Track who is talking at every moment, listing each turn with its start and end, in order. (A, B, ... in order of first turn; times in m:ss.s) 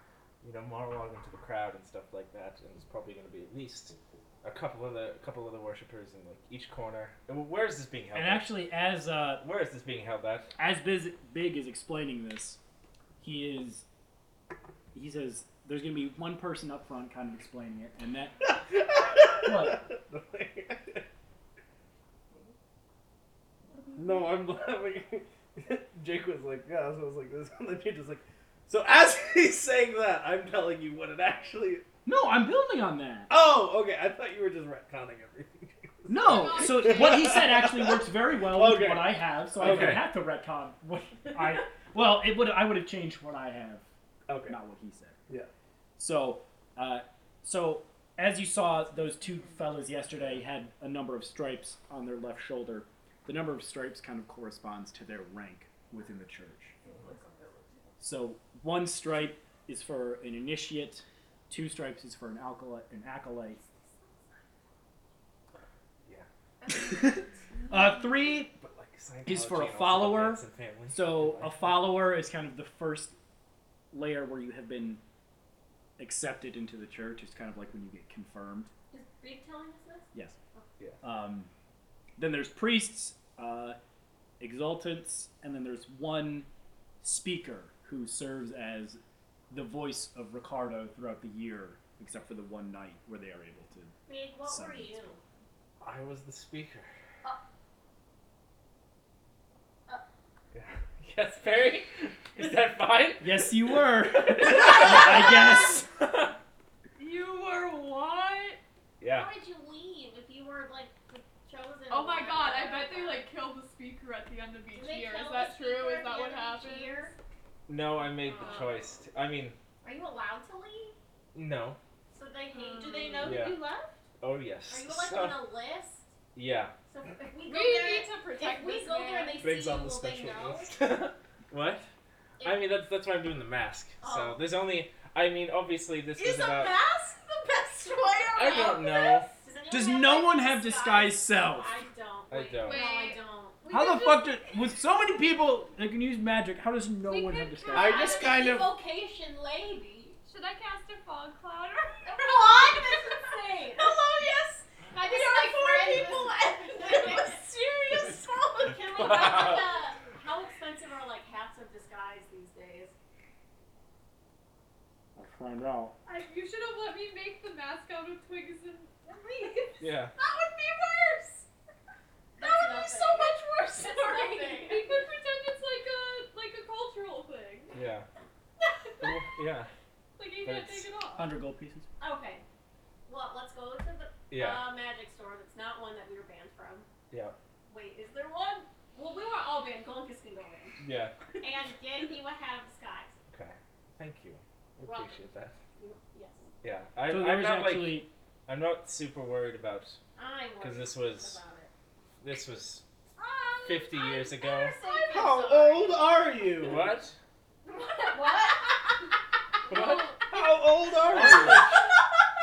0:00.4-0:08.5 A
0:08.1-0:09.4 B
0:09.4-0:10.5 A
0:10.6-0:12.6 B
0:13.2-0:13.8 B
0:14.9-0:18.4 B
0:18.4-0:21.1 C
0:19.4-0:19.9 B
0:24.0-0:31.8 C
0:32.0-0:33.3 B
0:33.3-0:40.0 C
0:36.1-0:43.8 B
0:36.2-0:37.5 D
0:39.6-0:40.1 A
0:44.3-0:44.6 C
0:44.5-0:45.2 B
0:46.0-0:56.8 B
0:56.9-0:57.9 D
0:58.0-1:03.6 B
1:06.7-1:08.5 B
1:06.8-1:07.2 D
1:08.5-1:11.8 A
1:09.2-1:13.2 B
1:13.9-1:15.0 B
1:16.0-1:18.7 B
1:18.9-1:20.7 E
1:21.0-1:21.5 B
1:22.2-1:23.8 B
1:24.4-1:26.5 B
1:27.0-1:34.9 B
1:34.1-1:35.2 E
1:35.8-1:36.9 A
1:40.5-1:46.4 A
1:43.2-1:45.9 B
1:47.0-1:48.6 D
1:49.0-1:49.3 A
1:49.1-1:53.3 E
1:51.9-1:57.0 D
1:54.7-1:57.1 E
1:57.7-1:59.6 A
1:58.2-1:59.0 E
1:58.4-1:58.7 D
1:59.8-2:01.0 E
2:01.3-2:01.8 A
2:02.1-2:03.5 E
2:02.5-2:03.4 D
2:02.6-2:04.0 F
2:03.2-2:03.6 A
2:04.2-2:05.5 A
2:04.7-2:06.1 E
2:06.4-2:06.8 A
2:06.9-2:10.7 E
2:07.4-2:09.4 D
2:09.4-2:11.9 A
2:12.4-2:12.8 E
2:12.4-2:16.8 A
2:14.0-2:14.5 E
2:16.1-2:19.1 F
2:18.3-2:19.3 A
2:18.4-2:23.6 E
2:19.7-2:21.7 B
2:22.3-2:23.0 A
2:22.6-2:24.7 D
2:23.7-2:28.0 B
2:27.0-2:28.3 D
2:27.7-2:28.7 C
2:27.8-2:30.2 E
2:30.2-2:33.0 D
2:32.1-2:34.0 E
2:32.3-2:32.8 F
2:33.7-2:37.5 F
2:34.9-2:43.0 E
2:35.0-2:38.0 D
2:38.9-2:39.8 A
2:45.2-2:46.0 B
2:46.1-2:51.5 D
2:49.8-2:50.1 A
2:52.4-2:54.9 E
2:52.4-2:57.8 D
2:57.7-2:58.1 A
2:58.6-2:59.2 D
2:59.0-2:59.7 A
3:00.2-3:01.3 D
3:00.4-3:00.9 A
3:01.2-3:01.9 B
3:02.0-3:02.4 E
3:03.1-3:06.9 E
3:04.3-3:04.7 A
3:07.7-3:10.8 E
3:10.8-3:11.1 A
3:11.4-3:13.2 E
3:13.3-3:15.6 A
3:14.8-3:16.4 E
3:16.6-3:20.0 A
3:17.1-3:18.1 B
3:20.2-3:21.7 E
3:20.6-3:21.4 A
3:22.2-3:22.8 A
3:23.2-3:26.5 E
3:23.6-3:24.8 A
3:25.1-3:26.9 C
3:26.6-3:27.2 A
3:27.6-3:29.0 E
3:29.7-3:30.2 A
3:29.7-3:30.2 D
3:30.3-3:31.6 C
3:31.2-3:31.6 A